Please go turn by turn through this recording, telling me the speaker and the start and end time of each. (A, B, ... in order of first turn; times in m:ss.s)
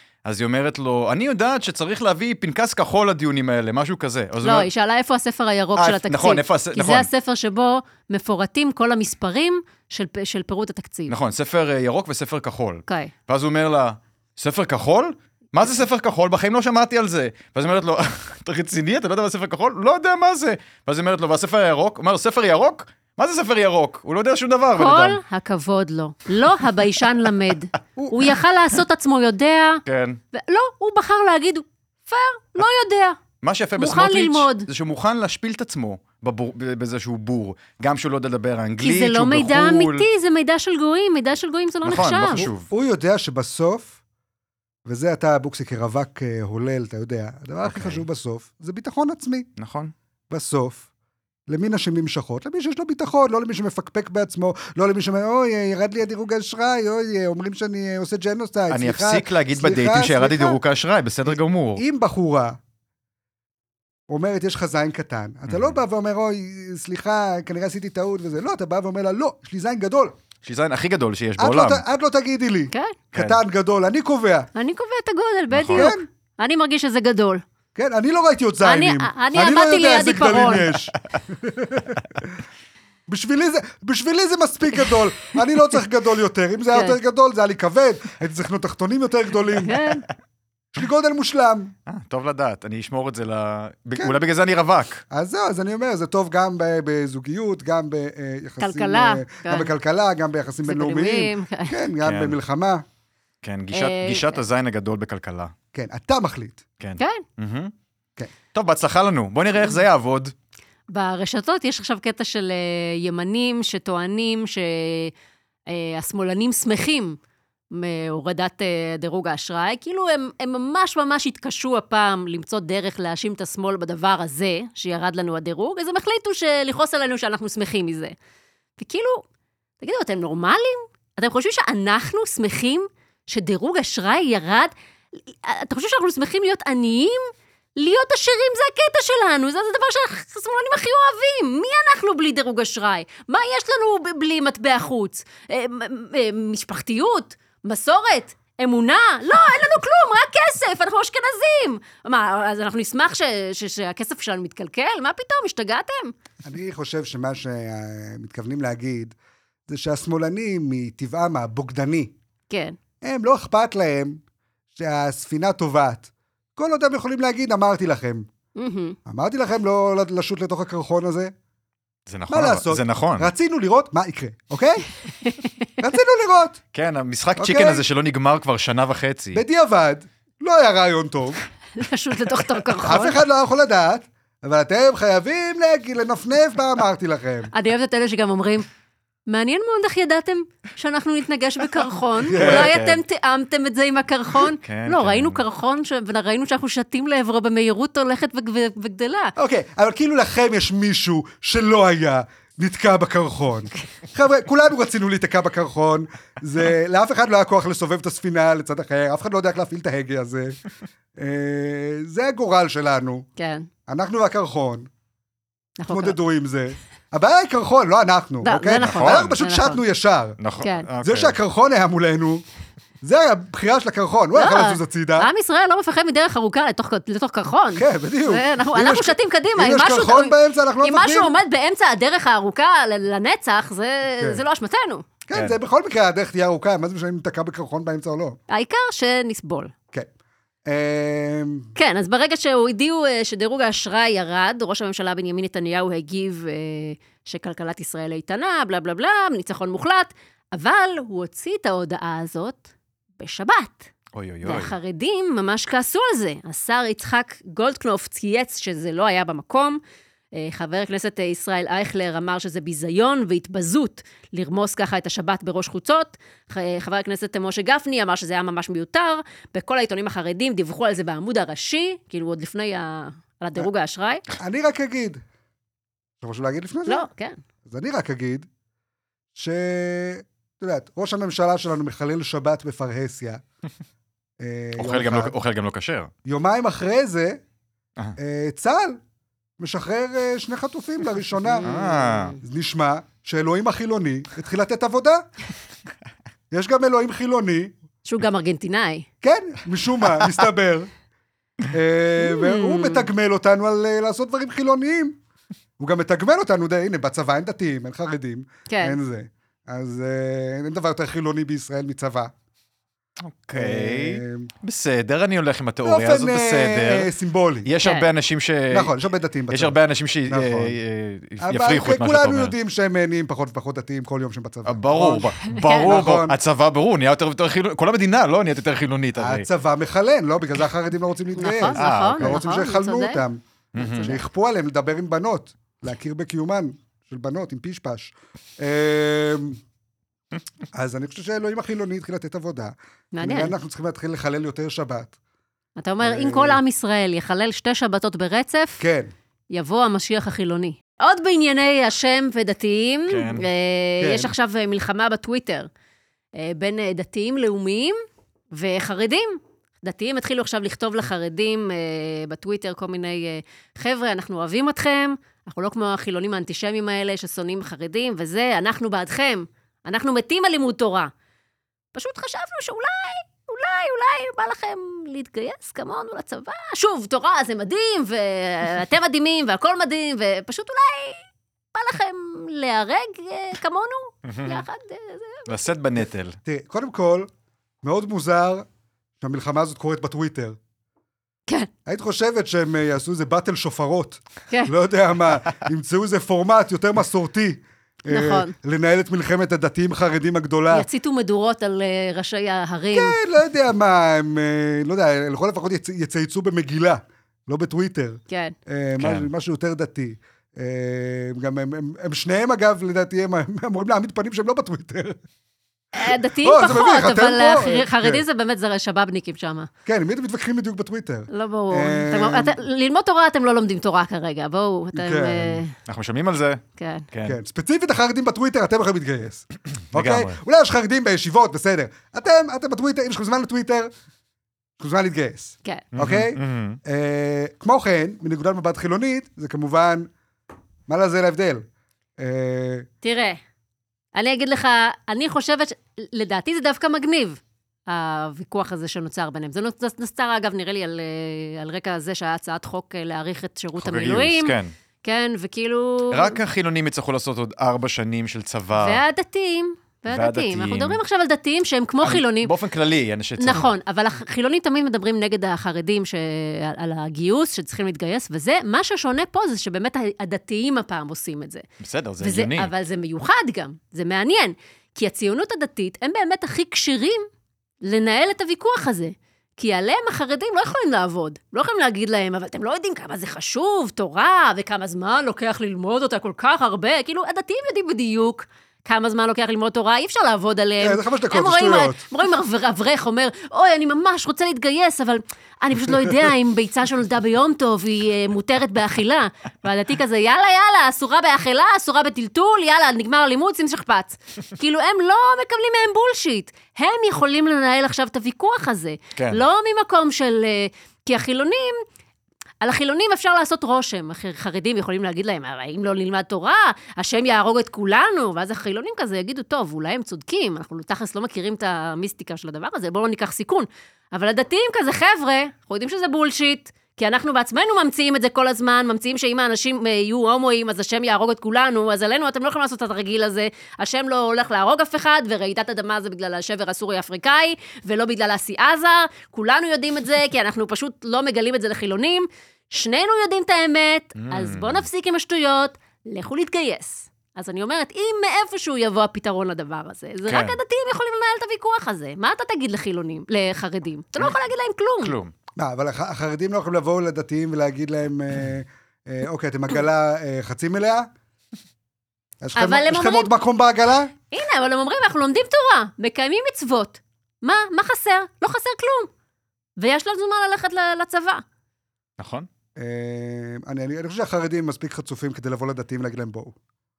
0:00.2-0:04.7 A
0:04.4-0:11.1 B
0:05.8-0:07.1 A
0:11.1-0:25.2 A
0:24.8-0:29.8 B
0:29.8-0:30.2 A
0:30.3-0:33.2 B
0:33.4-0:40.0 A
0:33.8-0:34.7 B
0:38.8-0:42.4 B
0:41.8-0:42.7 A
0:42.3-0:43.9 C
0:44.8-0:49.5 C
0:47.6-0:48.0 A
0:49.6-0:49.9 A
0:50.3-0:50.8 C
0:51.5-1:00.6 C
0:58.7-1:01.8 A
1:01.3-1:02.6 C
1:04.1-1:10.1 C
1:05.5-1:05.8 A
1:10.4-1:11.8 A
1:11.4-1:14.5 C
1:12.7-1:13.0 B
1:13.1-1:13.4 A
1:14.5-1:17.4 B
1:15.5-1:15.9 A
1:15.7-1:16.0 C
1:17.7-1:22.3 C
1:18.6-1:20.7 B
1:23.1-1:29.8 C
1:29.6-1:30.0 B
1:30.7-1:31.7 C
1:31.8-1:35.0 A
1:35.1-1:42.8 C
1:38.6-1:39.7 B
1:40.6-1:41.7 B
1:42.0-1:42.4 A
1:43.4-1:45.5 A
1:43.7-1:44.4 B
1:45.7-1:46.6 C
1:46.8-1:47.7 A
1:47.0-1:47.2 B
1:48.5-1:50.3 A
1:50.9-1:55.1 B
1:55.7-1:57.2 B
1:57.7-2:08.1 B
2:08.8-2:09.2 B
2:09.8-2:14.7 B
2:15.3-2:36.1 B
2:36.4-2:39.1 C
2:39.7-2:42.1 C
2:42.5-2:42.8 B
2:43.0-2:44.2 C
2:44.7-2:48.3 C
2:48.6-2:49.0 B
2:49.0-2:51.3 C
2:52.1-2:53.3 A
2:52.3-2:54.8 C
2:55.8-2:56.6 C
2:56.7-2:59.4 A
2:57.4-2:57.8 C
2:59.3-3:01.4 C
3:01.8-3:03.2 B
3:02.8-3:07.5 C
3:07.5-3:08.7 B
3:09.3-3:19.3 B
3:12.3-3:12.7 C
3:12.4-3:13.0 A
3:14.6-3:15.4 A
3:19.4-3:30.6 C
3:31.2-3:33.2 C
3:33.4-3:33.7 B
3:33.9-3:34.9 C
3:35.8-3:36.2 B
3:35.9-3:40.4 C
3:38.4-3:39.8 B
3:38.7-3:39.3 A
3:40.4-3:41.4 A
3:40.6-3:40.9 B
3:41.0-3:42.4 C
3:43.0-3:45.3 C
3:44.4-3:55.0 B
3:47.8-3:51.3 C
3:55.3-3:58.4 C
3:58.5-3:59.7 B
4:00.7-4:01.7 C
4:01.8-4:12.7 B
4:13.2-4:13.9 B
4:14.1-4:14.7 A
4:14.4-4:19.8 B
4:20.3-4:34.2 B
4:34.4-4:35.2 C
4:36.2-4:37.0 C
4:36.9-4:37.4 B
4:37.6-4:38.5 C
4:39.3-4:43.4 C
4:44.4-4:45.3 C
4:44.8-4:46.1 A
4:46.2-4:47.4 C
4:48.2-4:49.0 C
4:49.6-4:51.7 C
4:51.5-4:52.4 B
4:51.6-4:52.4 A
4:52.4-4:55.2 C
4:56.5-4:57.7 C
4:58.0-4:59.0 B
4:59.2-5:00.9 C
5:01.7-5:05.2 C
5:02.2-5:03.1 B
5:05.8-5:12.3 C
5:08.7-5:09.0 B
5:13.2-5:17.1 A
5:13.5-5:14.5 C
5:15.8-5:17.7 C
5:17.6-5:18.9 A
5:17.8-5:18.1 B
5:18.7-5:19.8 C
5:19.5-5:22.5 A
5:20.3-5:20.8 C
5:21.4-5:26.4 C
5:24.6-5:29.4 A
5:25.4-5:25.9 B
5:29.2-5:33.4 C
5:31.4-5:33.2 B
5:31.7-5:32.4 A
5:33.7-5:34.2 A
5:33.8-5:34.2 B
5:34.0-5:39.6 C
5:40.7-5:45.1 C
5:43.1-5:43.5 B
5:45.8-5:48.8 B
5:46.0-5:46.6 C
5:48.8-5:49.1 C
5:49.5-5:55.7 B
5:53.1-5:53.5 A
5:54.0-5:54.3 C
5:56.4-5:58.0 B
5:58.5-6:11.1 B
6:11.9-6:21.2 B
6:21.7-6:25.5 B
6:24.2-6:24.6 A
6:25.5-6:26.4 A
6:26.4-6:27.3 C
6:27.8-6:28.6 C
6:29.2-6:30.6 C
6:31.8-6:40.8 C
6:38.1-6:38.5 B
6:40.7-6:43.2 B
6:42.9-6:55.2 C
6:48.3-6:48.5 B
6:49.0-6:49.3 A
6:55.9-6:59.7 B
6:56.0-6:58.2 C
6:59.8-7:02.6 C
7:01.3-7:05.7 B
7:04.9-7:05.6 C
7:05.8-7:07.4 A
7:06.8-7:07.1 B
7:07.2-7:13.9 C
7:09.9-7:10.4 A
7:14.8-7:20.1 C
7:15.9-7:16.8 A
7:20.9-7:21.6 C
7:22.2-7:22.9 C
7:23.0-7:23.4 B
7:24.1-7:36.4 B
7:33.8-7:34.7 A
7:36.1-7:39.0 A
7:38.7-7:42.5 B
7:40.1-7:41.0 A
7:42.0-7:43.7 A
7:43.4-7:51.6 B
7:51.8-7:52.7 A
7:52.2-7:57.3 B
7:57.8-8:31.8 B
8:10.8-8:12.0 C
8:29.2-8:29.4 A
8:32.6-9:15.2 B
9:04.2-9:04.8 A
9:10.3-9:10.6 A
9:15.0-9:15.3 A
9:15.6-9:21.1 C
9:22.4-9:24.1 C
9:22.6-9:23.3 B
9:24.3-9:29.1 B
9:29.8-9:31.4 B
9:32.2-9:32.5 A
9:32.8-9:36.5 C